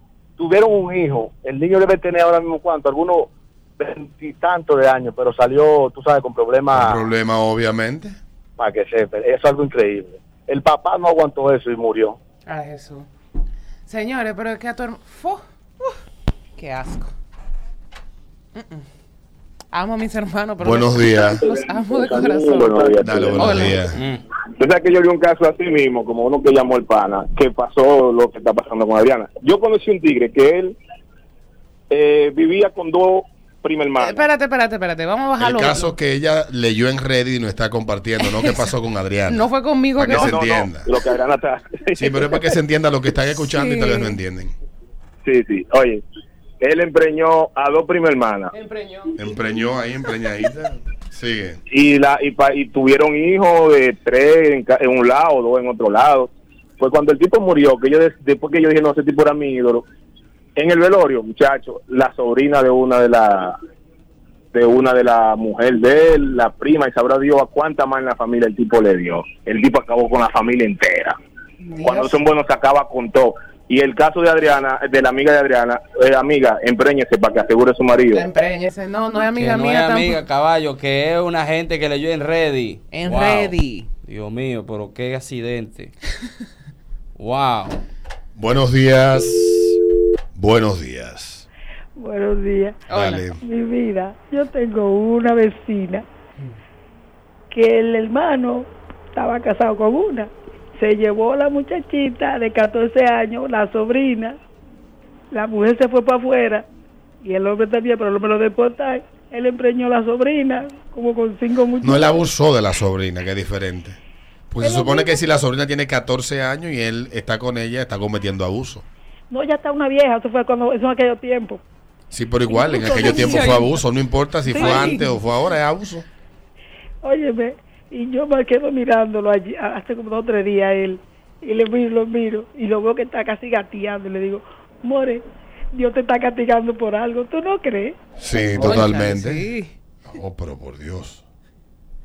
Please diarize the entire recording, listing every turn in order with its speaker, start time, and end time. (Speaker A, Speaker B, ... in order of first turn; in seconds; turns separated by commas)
Speaker A: 0.4-7.0, Speaker B: 6.7-8.2, Speaker A: 8.6-12.2, Speaker C: 12.5-13.1, Speaker C: 13.8-15.9, Speaker C: 16.6-17.1, Speaker C: 18.6-18.8, Speaker C: 19.7-23.8, Speaker B: 20.6-21.4, Speaker D: 21.9-23.8, Speaker B: 23.0-24.0, Speaker D: 24.6-30.7, Speaker D: 31.9-34.2, Speaker C: 34.0-35.9, Speaker B: 35.4-40.9, Speaker C: 39.3-40.4, Speaker D: 40.1-42.2, Speaker B: 42.0-44.5, Speaker C: 43.4-44.2, Speaker D: 45.2-46.0, Speaker D: 46.6-48.5, Speaker C: 48.5-49.1, Speaker B: 49.2-51.6, Speaker D: 51.7-59.8, Speaker D: 60.6-63.5, Speaker D: 64.5-71.1, Speaker C: 71.6-72.2, Speaker D: 71.8-78.2, Speaker C: 78.1-80.2, Speaker E: 79.3-85.9, Speaker C: 82.9-83.9, Speaker E: 87.2-87.8, Speaker B: 88.3-89.8, Speaker B: 90.3-91.5, Speaker F: 92.0-92.8, Speaker C: 92.9-93.2, Speaker B: 92.9-93.4, Speaker F: 93.4-96.0, Speaker F: 97.5-104.3, Speaker F: 105.3-106.7, Speaker F: 107.2-112.1, Speaker B: 111.8-114.0, Speaker B: 114.5-118.8, Speaker F: 114.6-115.2, Speaker F: 119.3-121.6, Speaker B: 122.1-126.0, Speaker F: 122.5-123.8, Speaker F: 124.4-125.1, Speaker C: 124.6-124.9, Speaker F: 127.0-135.2, Speaker F: 135.7-137.9, Speaker B: 138.2-139.5, Speaker C: 138.6-139.7, Speaker B: 140.0-141.2